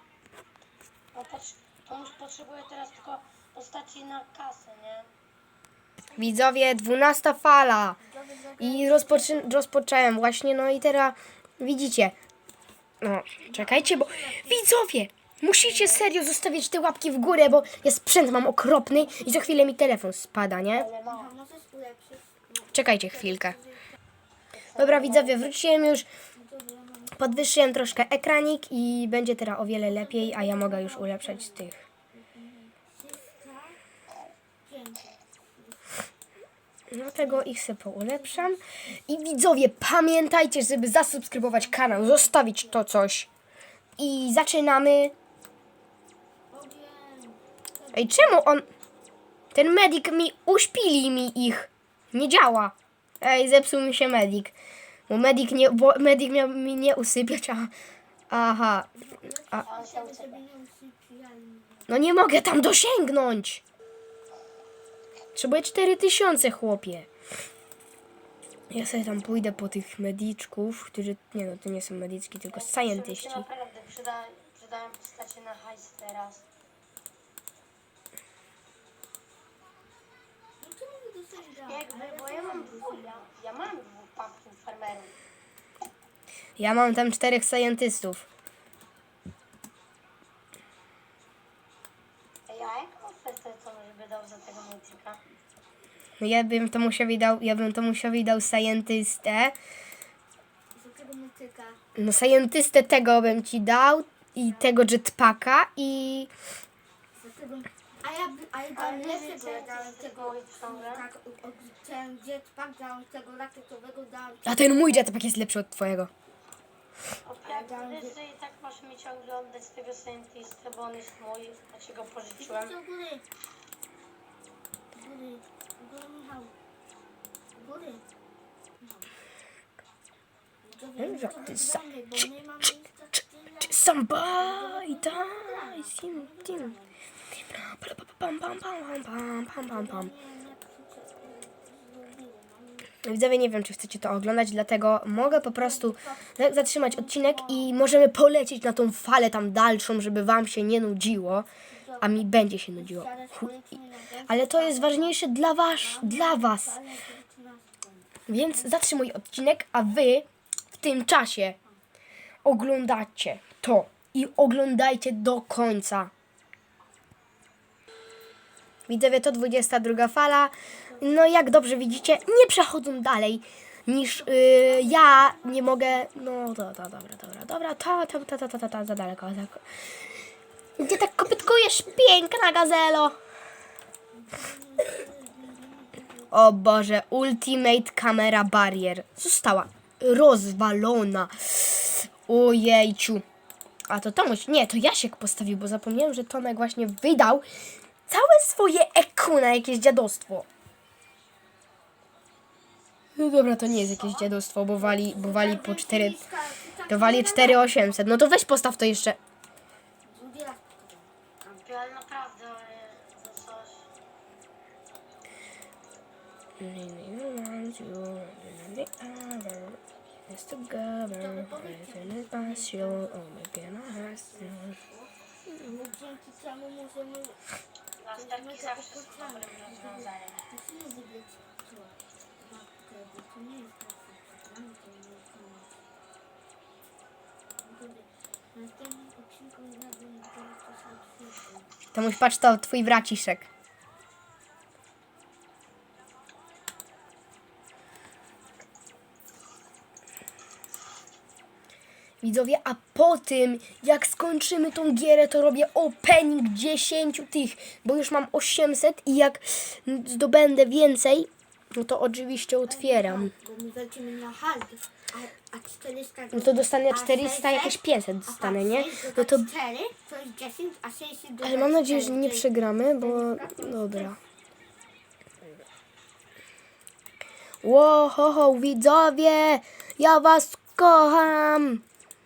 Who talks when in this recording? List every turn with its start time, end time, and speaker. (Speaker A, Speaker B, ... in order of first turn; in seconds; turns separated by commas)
Speaker A: 1.1-5.1, Speaker B: 6.2-8.0, Speaker C: 8.1-9.6, Speaker B: 8.6-12.2, Speaker B: 13.0-20.9, Speaker C: 13.4-14.6, Speaker C: 19.1-19.6, Speaker A: 20.7-21.3, Speaker C: 21.1-23.8, Speaker B: 22.7-23.6, Speaker A: 24.5-25.6, Speaker B: 24.8-26.1, Speaker C: 26.3-27.5, Speaker B: 27.2-31.8, Speaker C: 29.8-33.8, Speaker C: 34.6-36.0, Speaker B: 36.9-43.3, Speaker C: 37.1-37.5, Speaker C: 41.2-42.8, Speaker B: 44.0-45.1, Speaker C: 46.5-48.5, Speaker B: 47.9-48.7, Speaker B: 49.5-54.5, Speaker B: 55.1-57.7, Speaker B: 58.3-58.9, Speaker C: 59.0-62.0, Speaker A: 59.6-60.4, Speaker B: 61.9-63.6, Speaker B: 65.3-67.1, Speaker B: 68.7-73.5, Speaker A: 72.5-76.5, Speaker C: 80.6-83.3, Speaker A: 81.7-85.2, Speaker B: 86.6-88.2, Speaker A: 92.5-95.2, Speaker B: 96.2-99.5, Speaker C: 100.7-101.8, Speaker B: 102.0-106.3, Speaker C: 107.2-114.9, Speaker A: 108.8-111.1, Speaker B: 114.5-116.1, Speaker A: 117.2-122.8, Speaker C: 117.5-118.2, Speaker C: 122.4-123.2, Speaker C: 124.9-126.5, Speaker C: 127.6-128.0, Speaker C: 128.8-129.1, Speaker C: 130.6-136.9, Speaker B: 131.0-132.3, Speaker B: 133.6-136.7, Speaker B: 137.6-140.1, Speaker C: 139.7-142.9, Speaker B: 143.0-151.5, Speaker C: 145.2-147.7, Speaker C: 151.7-158.2, Speaker B: 152.0-153.5, Speaker B: 154.3-156.8, Speaker B: 158.3-161.6, Speaker B: 162.4-166.1, Speaker B: 168.9-179.6, Speaker C: 174.0-176.1, Speaker B: 180.8-183.2, Speaker C: 184.1-186.3, Speaker B: 186.3-193.2, Speaker B: 193.9-197.5, Speaker B: 198.1-200.5, Speaker B: 203.2-206.2, Speaker C: 204.7-207.9, Speaker B: 206.9-209.2, Speaker C: 210.1-211.1, Speaker A: 211.4-213.8, Speaker B: 216.6-224.8, Speaker C: 221.1-227.4, Speaker B: 225.5-225.8, Speaker A: 228.0-230.5, Speaker C: 228.1-235.7, Speaker C: 237.6-241.7, Speaker B: 241.9-243.5, Speaker B: 252.2-263.3, Speaker C: 262.7-274.1, Speaker B: 266.3-269.5, Speaker B: 271.4-274.2, Speaker B: 277.6-281.8